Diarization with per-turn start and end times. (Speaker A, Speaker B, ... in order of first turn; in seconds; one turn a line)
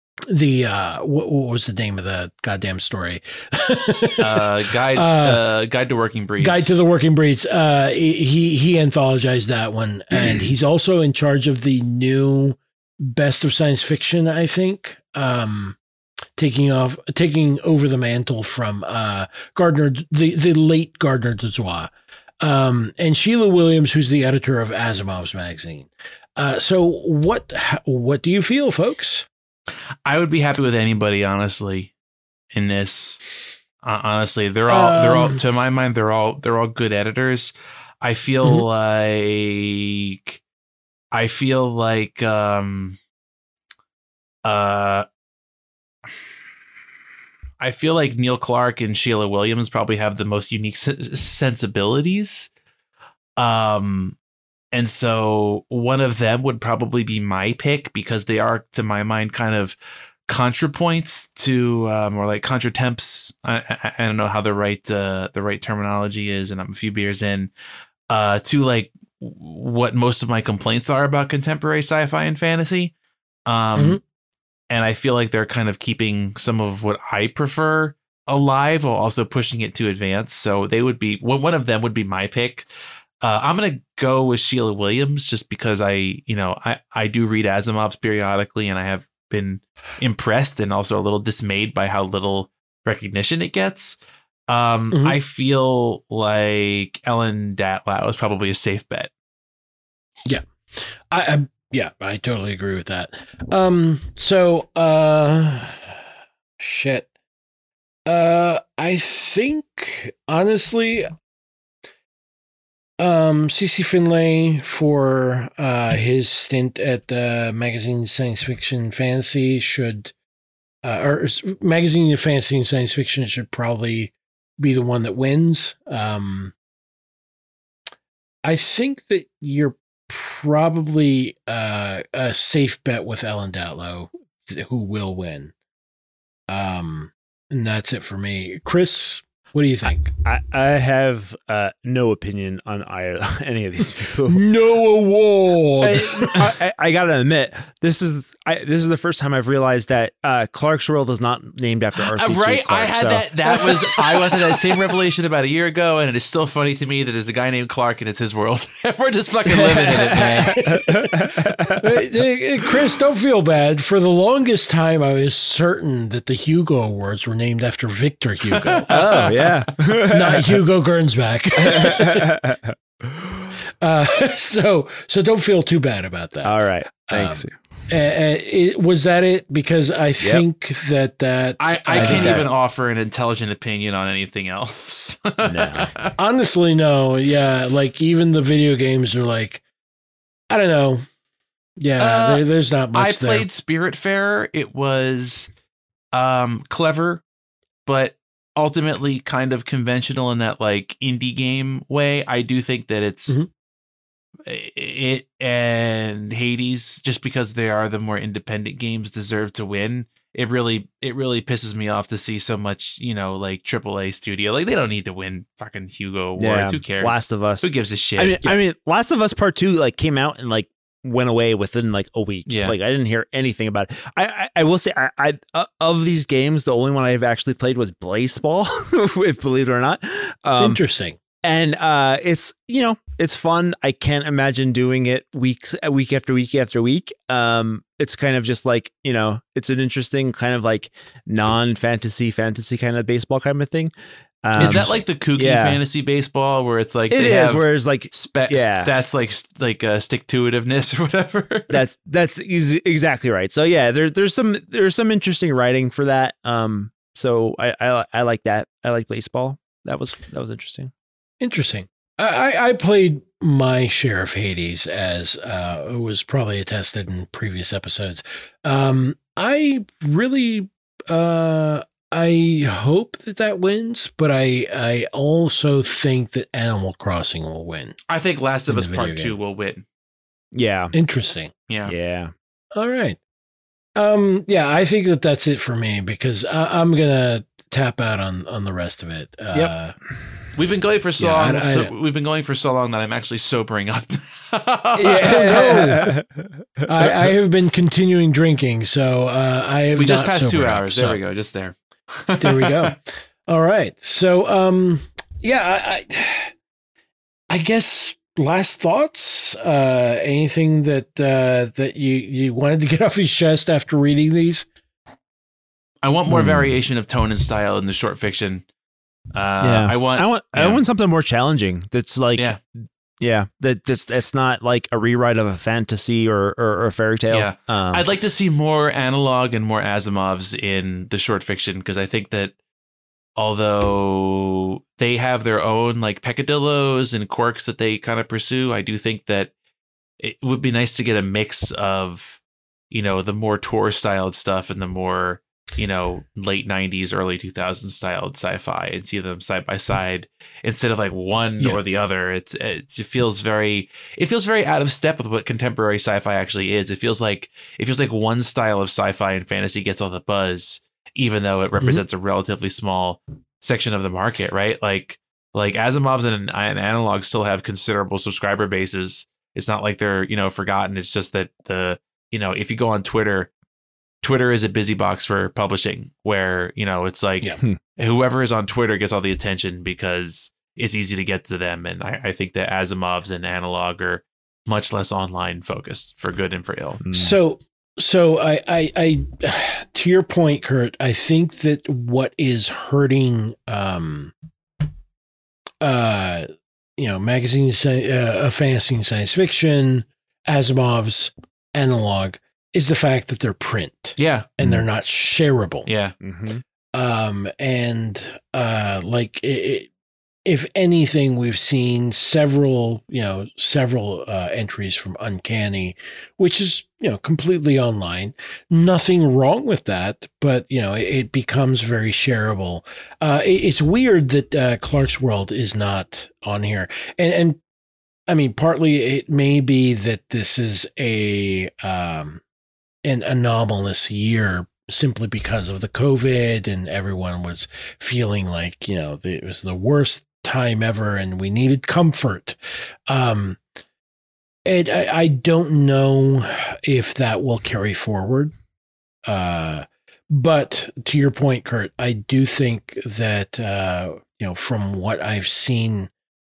Speaker A: 0.3-5.4
Speaker B: 4.2-6.7
Speaker A: 6.4-15.8
Speaker A: 16.4-29.3
Speaker B: 30.1-31.9
Speaker B: 32.5-33.2
Speaker B: 33.8-40.4
Speaker A: 34.7-35.4
Speaker B: 41.1-43.0
Speaker B: 44.4-45.0
Speaker B: 47.6-52.5
Speaker B: 53.4-54.1
Speaker B: 54.7-59.8
Speaker B: 60.3-67.5
Speaker B: 68.1-72.9
Speaker B: 73.5-74.0
Speaker B: 74.7-82.7
Speaker B: 83.2-94.0
Speaker B: 94.5-99.1
Speaker A: 94.9-95.2
Speaker A: 100.2-106.0
Speaker A: 106.6-107.1
Speaker A: 108.0-111.1
Speaker A: 113.0-120.1
Speaker A: 120.8-126.5
Speaker A: 128.4-135.5
Speaker A: 136.5-140.2
Speaker C: 140.2-144.4
Speaker A: 144.3-146.5
Speaker C: 145.8-153.2
Speaker B: 152.0-160.6
Speaker A: 153.6-154.3
Speaker C: 159.5-161.8
Speaker A: 160.1-168.9
Speaker B: 168.5-169.5
Speaker C: 168.9-170.6
Speaker A: 170.1-172.3
Speaker C: 171.6-172.7
Speaker A: 173.8-182.4
Speaker C: 176.4-177.6
Speaker B: 181.6-186.1
Speaker C: 182.0-182.5
Speaker C: 185.4-185.9
Speaker A: 186.2-189.6
Speaker A: 190.5-191.0
Speaker A: 191.8-193.4
Speaker B: 192.0-195.5
Speaker B: 196.1-197.2
Speaker B: 197.8-203.4
Speaker B: 204.5-218.6
Speaker C: 216.4-230.8
Speaker B: 222.4-222.7
Speaker A: 230.6-231.2
Speaker C: 231.4-243.9
Speaker C: 244.4-245.8
Speaker B: 244.6-251.7
Speaker C: 247.1-249.0
Speaker C: 251.7-260.9
Speaker A: 261.4-278.0
Speaker B: 278.1-279.8
Speaker A: 278.7-279.3
Speaker C: 280.5-280.9
Speaker A: 280.9-281.5
Speaker B: 281.7-281.9
Speaker C: 281.9-282.3
Speaker A: 282.7-283.2
Speaker A: 283.9-289.9
Speaker B: 290.5-295.6
Speaker A: 291.2-291.9
Speaker C: 295.0-297.1
Speaker A: 295.3-296.1
Speaker A: 296.9-301.2
Speaker B: 299.9-302.9
Speaker A: 302.4-306.5
Speaker A: 307.5-314.7
Speaker B: 316.0-318.6
Speaker C: 316.3-316.7
Speaker B: 319.3-320.8
Speaker C: 319.6-328.0
Speaker B: 327.3-332.5
Speaker B: 333.4-339.5
Speaker B: 340.2-373.5
Speaker B: 374.2-387.0
Speaker C: 387.0-387.4
Speaker A: 387.1-394.3
Speaker A: 395.8-405.9
Speaker B: 404.2-404.5
Speaker B: 405.9-406.1
Speaker C: 406.2-406.6
Speaker A: 406.9-409.9
Speaker A: 410.4-427.6
Speaker A: 428.3-432.4
Speaker A: 433.0-443.6
Speaker A: 444.6-448.5
Speaker A: 449.3-456.1